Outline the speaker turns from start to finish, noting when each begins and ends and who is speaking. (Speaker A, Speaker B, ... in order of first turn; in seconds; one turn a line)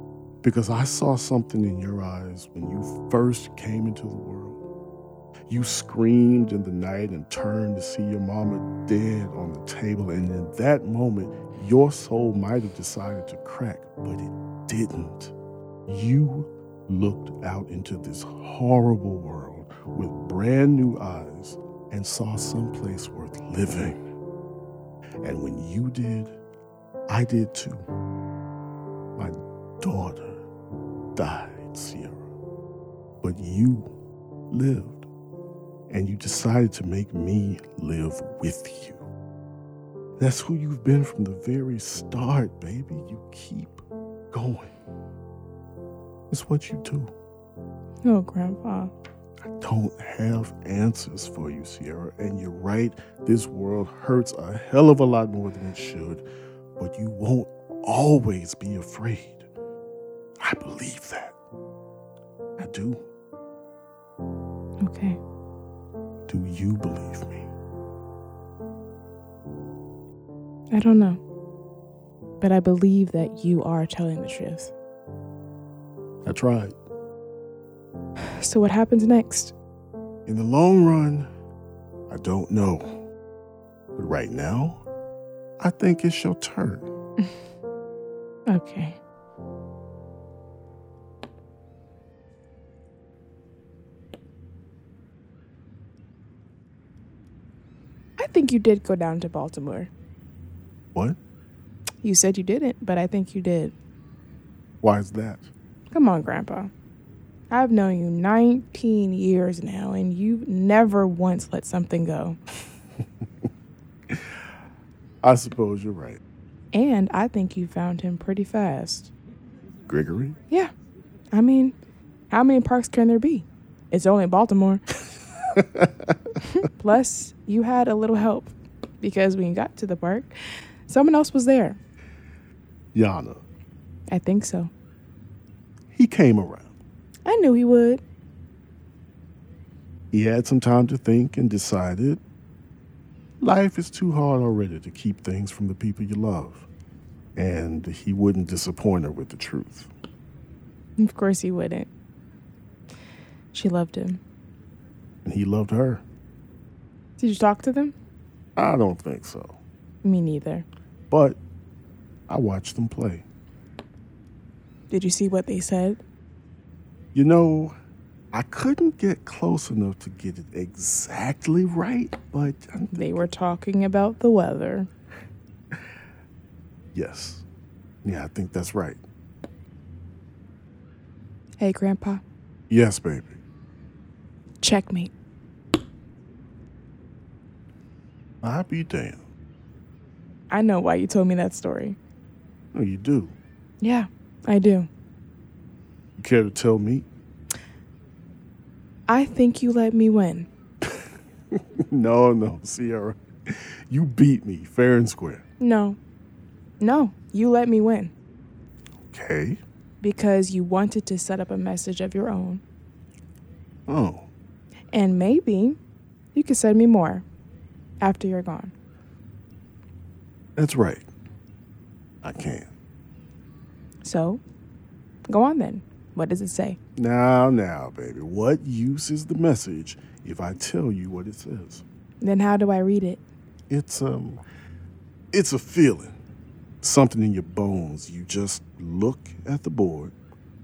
Speaker A: 0.4-4.7
Speaker A: 5.5-15.3
Speaker A: 15.9-24.1
Speaker A: 25.2-26.4
Speaker A: 27.1-27.9
Speaker A: 29.2-30.4
Speaker A: 31.1-32.3
Speaker A: 33.2-33.9
Speaker A: 34.5-35.1
Speaker A: 35.9-39.1
Speaker A: 40.2-44.7
Speaker A: 46.3-47.1
Speaker B: 48.0-48.9
Speaker A: 49.4-56.2
Speaker A: 56.8-59.5
Speaker A: 60.4-61.4
Speaker A: 62.6-63.0
Speaker B: 64.8-65.2
Speaker A: 66.3-67.5
Speaker B: 70.7-71.2
Speaker B: 72.4-74.7
Speaker A: 76.2-76.8
Speaker B: 78.4-79.5
Speaker A: 80.3-81.3
Speaker A: 82.1-83.0
Speaker A: 84.0-84.8
Speaker A: 85.6-86.9
Speaker B: 88.5-89.0
Speaker B: 98.2-99.9
Speaker B: 102.0-103.7
Speaker A: 104.8-105.5
Speaker B: 105.9-106.7
Speaker B: 107.5-112.4
Speaker A: 114.1-114.4
Speaker A: 115.2-116.2
Speaker B: 116.7-119.1
Speaker A: 119.9-120.4
Speaker B: 121.3-121.8
Speaker B: 122.3-124.8
Speaker A: 125.5-126.4
Speaker B: 126.6-130.3
Speaker B: 130.9-131.8
Speaker A: 132.9-133.4
Speaker B: 134.1-134.7
Speaker A: 135.9-136.8
Speaker B: 137.2-138.0
Speaker A: 140.1-142.2
Speaker A: 143.4-146.7
Speaker A: 147.4-149.9
Speaker B: 151.0-151.9
Speaker B: 153.5-154.2
Speaker A: 155.2-156.0
Speaker B: 157.2-157.9
Speaker A: 158.6-159.6
Speaker B: 160.0-160.7
Speaker A: 161.1-161.4
Speaker A: 162.3-163.2
Speaker B: 164.9-166.0
Speaker A: 167.1-167.8
Speaker A: 168.3-173.3
Speaker B: 172.9-174.9
Speaker A: 176.9-177.4
Speaker A: 178.0-179.0
Speaker B: 181.6-182.2
Speaker A: 182.7-183.4
Speaker B: 184.6-185.1
Speaker A: 188.4-189.2
Speaker B: 190.5-192.0
Speaker A: 192.7-193.4
Speaker B: 193.8-194.9
Speaker A: 196.2-197.1
Speaker B: 199.1-200.5
Speaker A: 200.9-205.4
Speaker B: 205.6-206.0
Speaker B: 206.8-208.1
Speaker A: 209.1-209.6
Speaker B: 210.0-212.6
Speaker A: 213.9-214.3
Speaker B: 214.9-215.8
Speaker B: 216.3-217.2
Speaker B: 218.0-218.7
Speaker A: 220.6-221.1
Speaker A: 222.2-222.7
Speaker B: 224.0-224.4
Speaker B: 225.3-226.8
Speaker A: 227.0-231.8
Speaker B: 232.2-233.2
Speaker A: 233.7-234.4
Speaker A: 235.3-236.2
Speaker A: 236.8-240.1